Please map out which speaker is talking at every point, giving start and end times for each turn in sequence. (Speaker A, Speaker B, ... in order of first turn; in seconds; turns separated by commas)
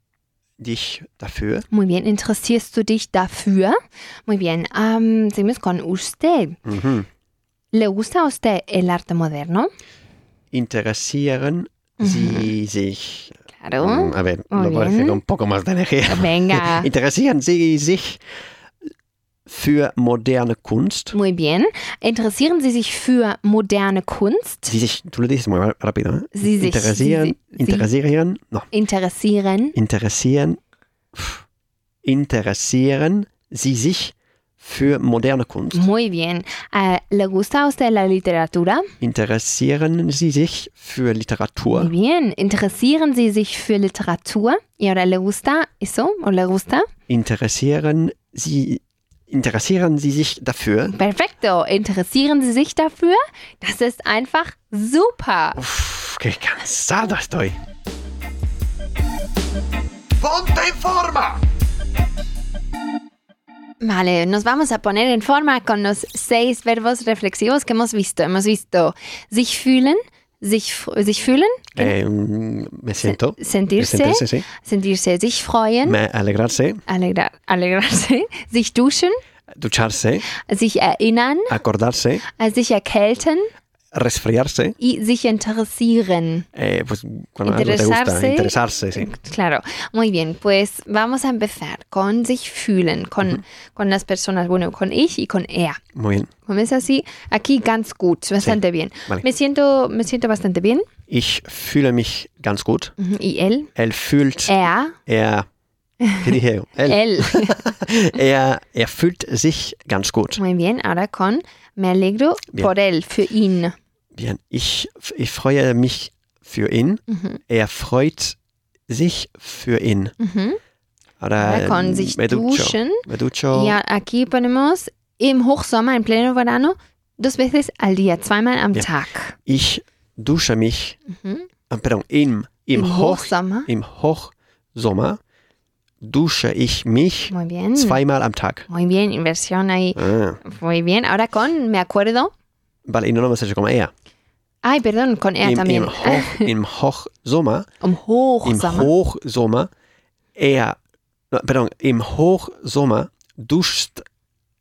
Speaker A: 0.6-1.7, Speaker B: 1.7-6.6, Speaker A: 6.7-7.1, Speaker B: 7.7-9.7, Speaker A: 10.5-18.2, Speaker B: 12.0-12.5, Speaker B: 13.5-15.2, Speaker B: 16.1-16.9, Speaker A: 19.5-21.1, Speaker B: 21.1-24.8, Speaker A: 24.7-28.7, Speaker B: 26.4-27.9, Speaker B: 28.7-29.8, Speaker A: 29.8-30.6, Speaker A: 31.1-31.4, Speaker A: 32.0-35.8, Speaker B: 35.7-38.9, Speaker A: 39.0-41.9, Speaker B: 41.7-46.9, Speaker A: 47.1-50.9, Speaker B: 50.9-55.6, Speaker A: 55.6-57.6, Speaker A: 60.2-61.4, Speaker B: 63.8-71.9, Speaker A: 71.8-74.5, Speaker B: 73.0-76.0, Speaker A: 75.8-76.8, Speaker B: 76.9-79.2, Speaker A: 79.5-80.2, Speaker B: 80.3-81.6, Speaker A: 81.5-82.2, Speaker B: 82.3-83.5, Speaker A: 83.9-84.8, Speaker B: 84.8-86.5, Speaker A: 86.5-89.1, Speaker B: 87.5-95.8, Speaker A: 96.0-96.3, Speaker B: 96.5-100.9, Speaker A: 98.4-99.2, Speaker A: 101.1-102.9, Speaker B: 103.0-103.7, Speaker A: 103.8-105.5, Speaker B: 104.5-105.0, Speaker A: 106.1-110.4, Speaker B: 106.9-107.6, Speaker B: 110.4-113.8, Speaker A: 114.1-118.4, Speaker B: 117.1-117.4, Speaker A: 118.9-120.2, Speaker B: 120.2-120.6, Speaker A: 121.2-123.8, Speaker B: 121.4-129.4, Speaker A: 129.5-131.0, Speaker B: 131.1-131.5, Speaker A: 131.7-135.2, Speaker B: 132.7-133.7, Speaker A: 136.0-138.7, Speaker B: 137.3-138.0, Speaker B: 138.7-142.3, Speaker A: 140.0-140.4, Speaker A: 142.9-143.9, Speaker B: 144.6-146.5, Speaker A: 145.4-147.7, Speaker B: 147.8-148.9, Speaker A: 148.4-149.7, Speaker A: 150.4-150.8, Speaker A: 151.3-154.1